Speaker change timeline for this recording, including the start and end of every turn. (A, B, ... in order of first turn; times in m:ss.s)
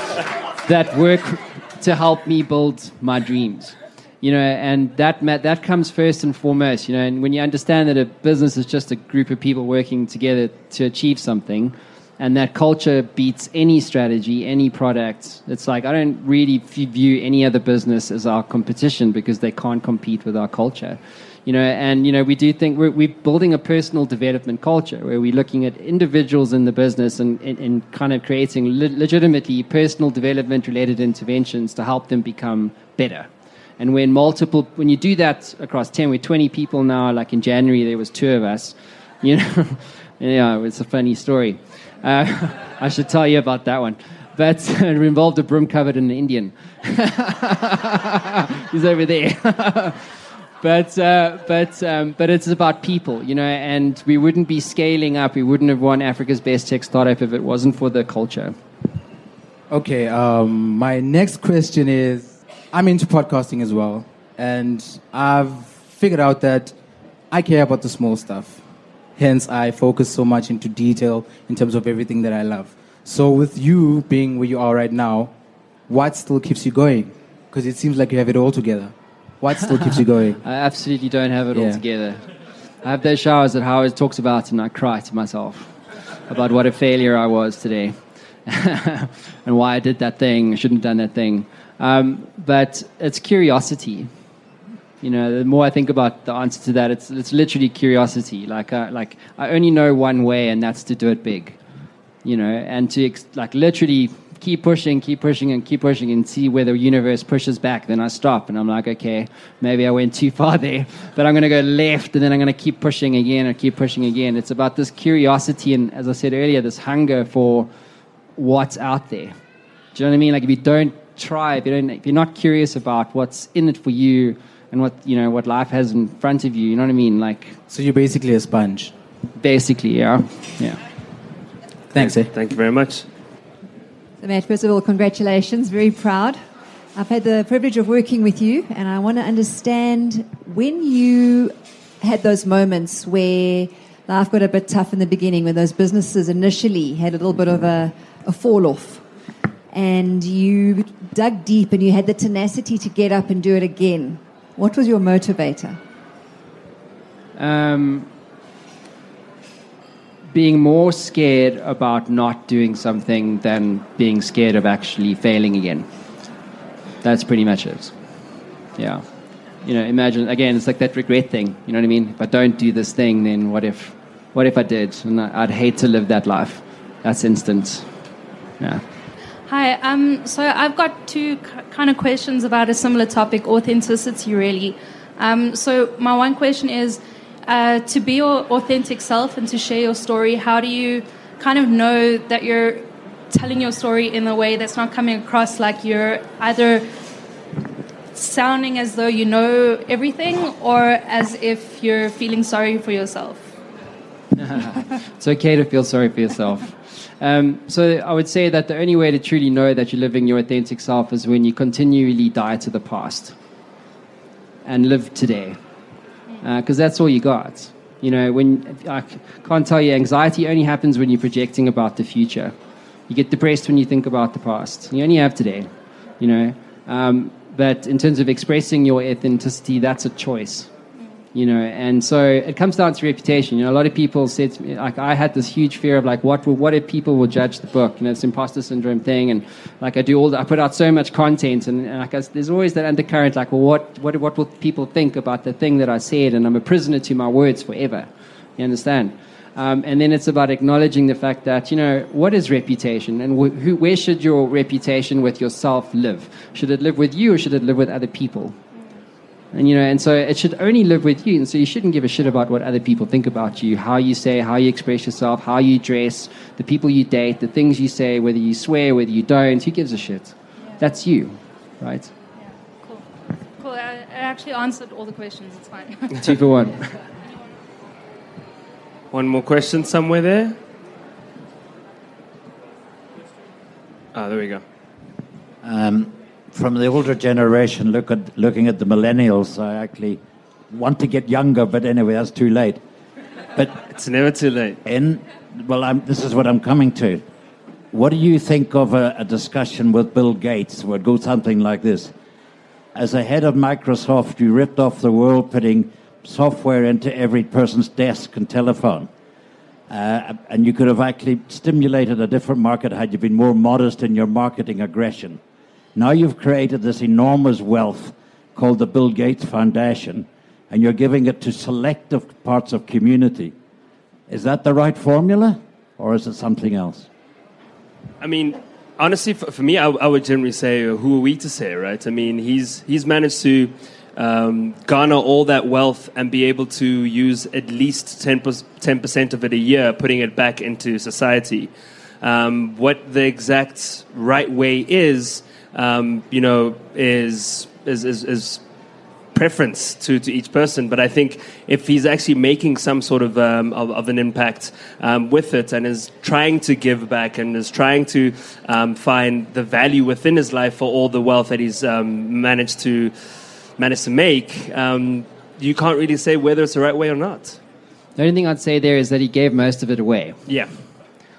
0:00.6-0:58.6 A
0:59.7-1:06.8 B
1:07.3-1:08.6 B
1:09.2-1:15.3 B
1:15.9-1:20.4 B
1:20.4-1:22.2 A
1:21.5-1:21.8 B
1:22.8-1:25.7 A
1:26.3-1:28.0 A
1:28.5-1:34.1 A
1:35.0-1:41.6 A
1:42.2-1:57.7 A
1:58.4-1:59.4 A
1:59.9-2:07.6 A
2:07.7-2:08.9 B
2:09.4-2:10.8 A
2:11.9-2:13.0 C
2:11.9-2:12.3 B
2:14.2-2:16.4 D
2:17.0-2:29.0 D
2:29.7-2:35.8 D
2:37.4-2:38.1 A
2:40.3-2:45.9 A
2:47.0-2:47.9 A
2:48.8-2:49.0 A
2:49.6-2:57.9 A
2:59.5-3:16.9 E
3:18.1-3:23.5 E
3:24.4-3:33.4 A
3:34.7-3:35.6 A
3:36.4-3:42.5 A
3:43.1-3:50.7 A
3:51.3-4:18.6 A
4:19.5-4:32.1 A
4:33.6-4:36.2 E
4:36.2-4:36.8 A
4:39.1-4:40.6 C
4:44.1-4:44.6 C
4:45.6-4:52.8 F
4:53.6-4:54.8 C
4:54.8-4:57.2 F
4:57.9-5:02.1 F
5:03.0-5:09.1 F
5:09.9-5:15.4 F
5:16.0-5:23.5 F
5:24.3-5:27.1 F
5:28.2-5:41.7 C
5:42.2-5:48.6 C
5:49.3-6:03.1 C
6:03.8-6:07.6 C
6:08.2-6:10.4 A